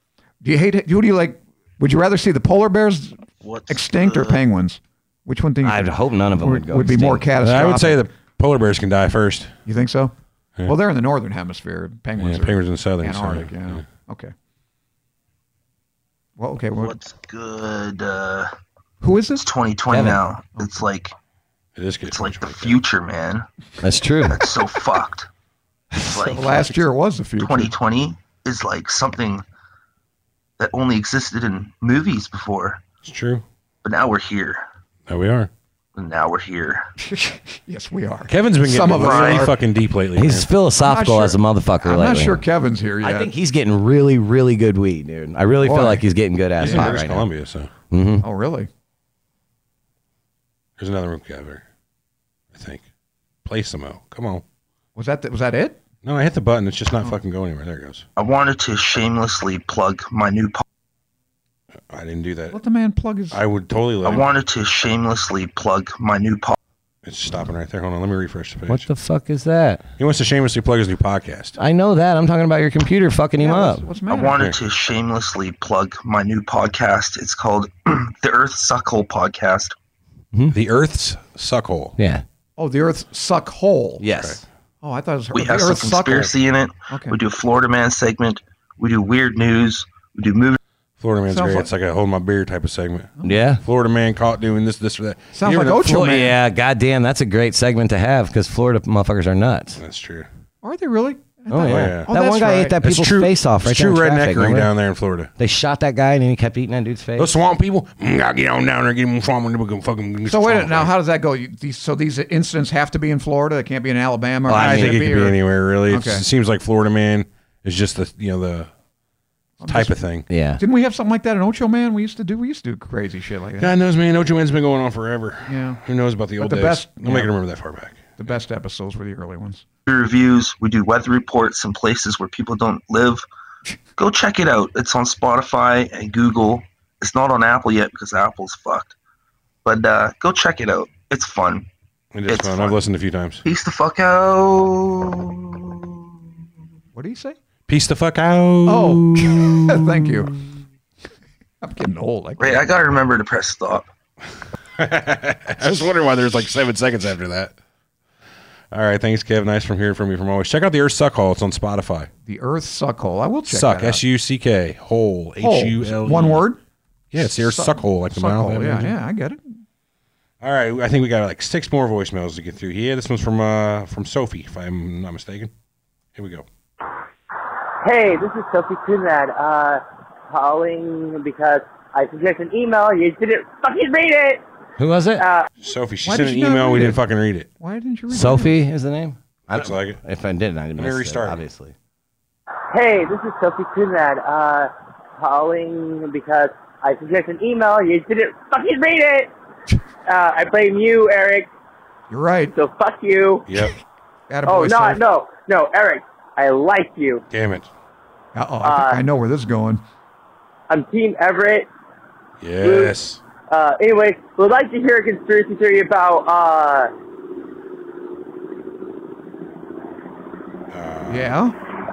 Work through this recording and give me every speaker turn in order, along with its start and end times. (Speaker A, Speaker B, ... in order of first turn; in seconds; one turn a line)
Speaker A: 0.4-8.1
Speaker B: 3.4-4.4
Speaker C: 5.6-7.2
Speaker D: 7.4-9.5
Speaker A: 9.7-10.1
Speaker A: 10.7-14.3
Speaker D: 12.2-13.8
Speaker A: 16.4-17.0
Speaker B: 16.8-18.5
Speaker A: 19.0-19.4
Speaker B: 19.4-21.1
Speaker C: 19.9-20.2
Speaker A: 20.6-20.8
Speaker D: 21.8-22.8
Speaker B: 22.1-23.5
Speaker C: 23.8-24.4
Speaker B: 24.3-25.3
Speaker A: 25.9-27.8
Speaker B: 26.0-26.9
Speaker B: 27.4-29.4
Speaker B: 30.6-32.8
Speaker D: 33.0-33.4
Speaker B: 33.8-34.6
Speaker D: 35.1-35.5
Speaker B: 36.0-36.9
Speaker A: 37.0-39.6
Speaker D: 38.3-40.5
Speaker B: 39.0-39.4
Speaker C: 40.2-42.4
Speaker A: 40.8-43.3
Speaker C: 43.0-47.3
Speaker A: 45.6-46.1
Speaker D: 46.6-47.7
Speaker A: 46.7-47.0
Speaker C: 47.9-48.2
Speaker A: 48.2-48.7
Speaker D: 50.8-51.6
Speaker D: 52.5-52.8
Speaker D: 53.5-54.4
Speaker A: 55.0-55.8
Speaker D: 56.0-58.0
Speaker B: 58.2-60.6
Speaker D: 61.9-62.6
Speaker A: 62.5-63.4
Speaker D: 63.3-64.4
Speaker B: 64.0-66.6
Speaker D: 67.0-68.9
Speaker C: 68.7-69.8
Speaker D: 70.0-71.6
Speaker C: 71.6-73.8
Speaker A: 73.4-74.4
Speaker B: 74.1-79.8
Speaker D: 80.5-82.0
Speaker C: 82.0-82.2
Speaker A: 82.6-84.0
Speaker C: 84.0-84.4
Speaker A: 84.8-86.3
Speaker B: 85.3-90.6
Speaker A: 86.9-87.2
Speaker D: 91.0-95.9
Speaker A: 91.3-91.7
Speaker C: 93.2-93.6
Speaker A: 95.3-96.4
Speaker C: 95.7-99.8
Speaker D: 99.8-100.3
Speaker A: 100.6-102.8
Speaker C: 101.5-104.7
Speaker D: 101.6-102.1
Speaker D: 102.8-105.3
Speaker C: 105.4-107.3
Speaker D: 107.2-110.9
Speaker A: 110.3-116.2
Speaker C: 114.5-115.1
Speaker D: 114.5-118.7
Speaker A: 119.6-120.0
Speaker D: 119.7-120.3
Speaker C: 120.3-120.6
Speaker A: 120.6-123.7
Speaker D: 123.6-128.1
Speaker A: 125.5-125.8
Speaker A: 126.4-127.3
Speaker A: 128.2-129.7
Speaker B: 129.9-133.2
Speaker B: 134.0-138.9
Speaker B: 139.7-141.7
Speaker D: 142.1-143.4
Speaker B: 142.3-142.8
Speaker B: 143.4-146.0
Speaker A: 146.9-147.4
Speaker D: 147.7-150.1
Speaker A: 148.7-150.3
Speaker A: 151.6-152.8
Speaker B: 152.4-153.9
Speaker D: 154.8-157.5
Speaker D: 158.7-162.1
Speaker A: 162.3-164.0
Speaker D: 163.5-166.4
Speaker A: 165.4-166.6
Speaker D: 167.1-168.9
Speaker A: 167.2-169.6
Speaker D: 170.4-175.5
Speaker D: 176.2-176.4
Speaker E: 177.8-184.4
Speaker C: 184.8-185.2
Speaker E: 185.2-185.5
Speaker D: 185.6-187.5
Speaker A: 186.0-187.0
Speaker A: 187.6-188.6
Speaker C: 188.1-191.7
Speaker D: 189.5-190.0
Speaker D: 190.8-191.4
Speaker E: 192.7-199.3
Speaker E: 200.1-201.5
Speaker A: 202.1-202.5
Speaker E: 202.5-203.5
Speaker D: 203.5-203.8
Speaker A: 204.3-205.0
Speaker E: 204.5-207.2
Speaker D: 207.3-207.7
Speaker A: 208.3-209.8
Speaker E: 208.6-209.0
Speaker E: 210.7-211.7
Speaker D: 212.4-213.2
Speaker E: 212.6-212.9
Speaker E: 213.5-216.9
Speaker D: 220.7-221.2
Speaker A: 221.1-221.6